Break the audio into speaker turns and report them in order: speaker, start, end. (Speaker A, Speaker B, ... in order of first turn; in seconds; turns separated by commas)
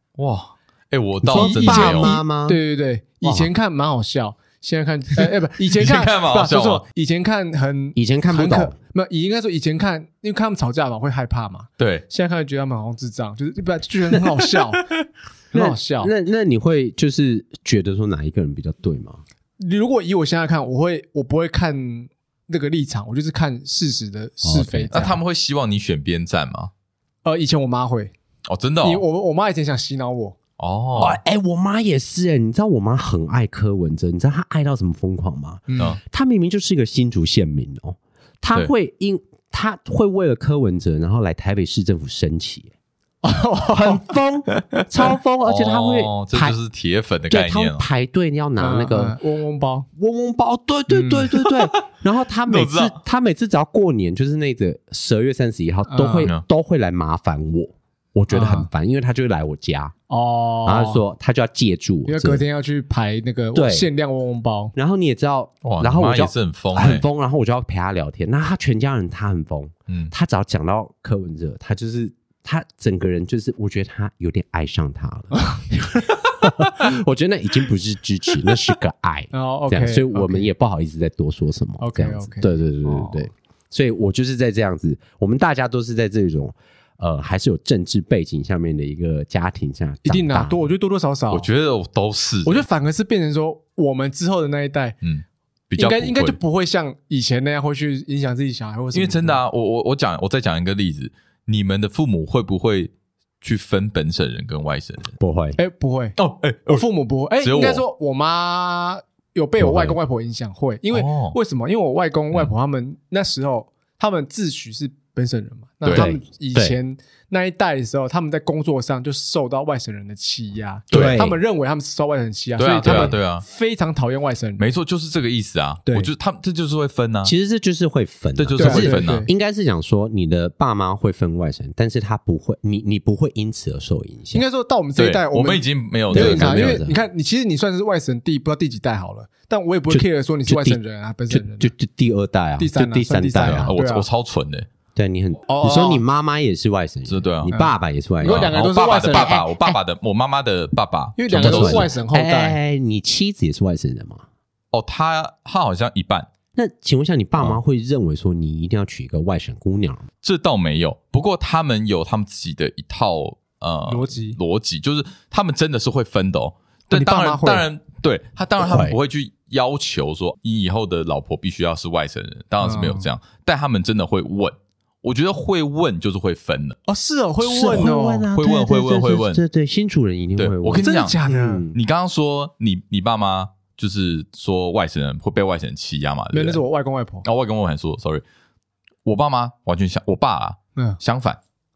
Speaker A: 0.2-2.2, Speaker B: 1.2-2.6, Speaker C: 1.3-14.9, Speaker B: 3.2-3.5, Speaker A: 5.2-6.8, Speaker B: 8.0-8.8, Speaker A: 11.8-12.1, Speaker C: 15.5-16.1, Speaker B: 15.5-19.2, Speaker C: 19.6-25.2, Speaker B: 24.4-25.1, Speaker A: 24.9-26.7, Speaker C: 27.2-28.1, Speaker A: 28.4-29.0, Speaker C: 28.8-30.4, Speaker A: 30.6-31.2, Speaker B: 31.0-42.7, Speaker C: 35.7-36.0, Speaker C: 43.2-44.8, Speaker B: 43.7-46.5, Speaker A: 45.4-47.8, Speaker B: 47.3-49.1, Speaker C: 48.6-49.9, Speaker B: 50.0-59.9, Speaker C: 50.9-51.3, Speaker A: 51.3-51.8, Speaker A: 52.5-53.0, Speaker C: 55.9-56.3, Speaker C: 58.3-58.7, Speaker C: 60.1-61.0, Speaker B: 60.6-62.4, Speaker C: 62.0-64.7, Speaker B: 63.5-63.9, Speaker B: 64.7-90.6, Speaker A: 65.6-67.0, Speaker C: 79.3-80.5, Speaker C: 81.8-83.3, Speaker C: 90.0-91.5, Speaker A: 91.3-92.6, Speaker C: 92.4-95.0, Speaker A: 95.0-96.4, Speaker C: 95.8-99.4, Speaker A: 98.9-105.1, Speaker B: 105.2-105.6, Speaker C: 105.6-124.6, Speaker A: 106.2-106.8, Speaker A: 107.4-107.8, Speaker B: 109.6-110.0, Speaker A: 110.9-111.3, Speaker A: 115.8-116.1, Speaker B: 115.9-116.7, Speaker A: 120.9-121.2, Speaker B: 120.9-121.4, Speaker A: 122.6-123.4, Speaker B: 122.8-123.2, Speaker A: 124.6-127.3, Speaker B: 127.2-134.4, Speaker A: 128.3-129.2, Speaker C: 128.6-129.3, Speaker C: 134.3-141.7, Speaker A: 135.0-136.8, Speaker B: 136.1-137.0, Speaker B: 139.9-140.8, Speaker B: 141.3-143.7, Speaker C: 142.6-144.1, Speaker A: 143.4-144.7, Speaker B: 144.9-148.5, Speaker C: 145.5-146.0, Speaker A: 147.1-147.5, Speaker C: 147.5-149.4, Speaker A: 148.2-151.9, Speaker B: 149.1-149.8, Speaker C: 151.2-152.6, Speaker B: 151.3-154.2, Speaker A: 154.7-156.3, Speaker B: 156.5-160.1, Speaker A: 160.2-176.8, Speaker C: 163.9-164.4, Speaker C: 166.9-167.7, Speaker B: 168.6-169.0, Speaker C: 172.6-173.1, Speaker C: 176.9-178.3, Speaker B: 177.4-181.8, Speaker A: 177.7-179.4, Speaker A: 180.4-181.2, Speaker C: 180.8-181.6, Speaker A: 181.7-186.6, Speaker C: 186.3-187.2, Speaker A: 187.2-188.2, Speaker A: 189.0-191.4, Speaker C: 190.7-191.0